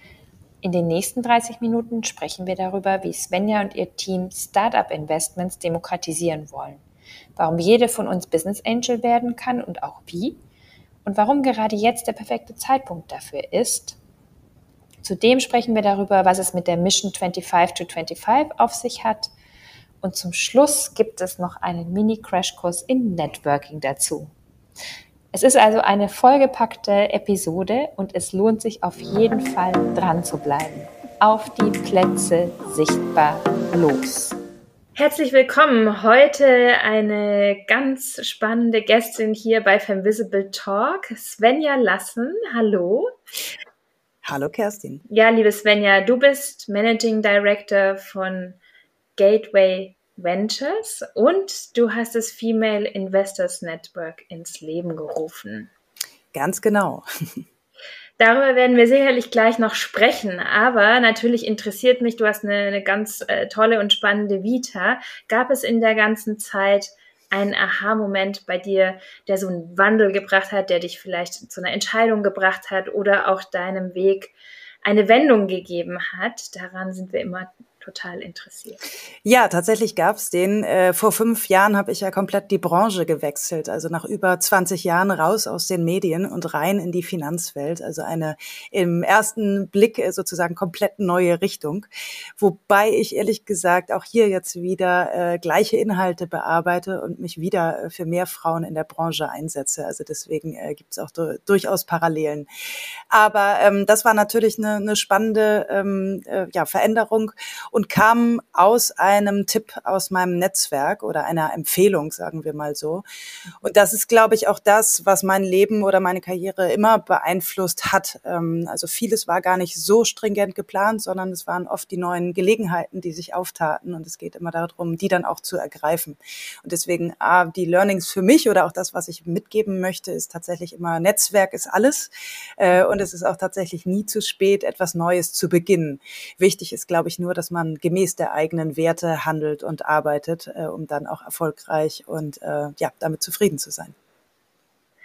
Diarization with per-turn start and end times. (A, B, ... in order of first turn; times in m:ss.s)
0:00.6-0:06.8 A
0:07.4-0:10.4 A
0:11.0-0:14.0 A
0:15.0-0:19.3 A
0:20.0-0:24.3 A
0:25.3-0:34.4 A
0:35.0-0:43.1 A
0:44.2-0:45.0 B
0:45.1-0:48.6 A
0:49.2-0:55.7 A
0:56.3-0:57.0 B
0:58.2-1:14.3 A
1:14.8-1:18.8 A
1:19.2-1:42.5 B
1:43.1-1:53.0 B
1:53.6-2:23.9 B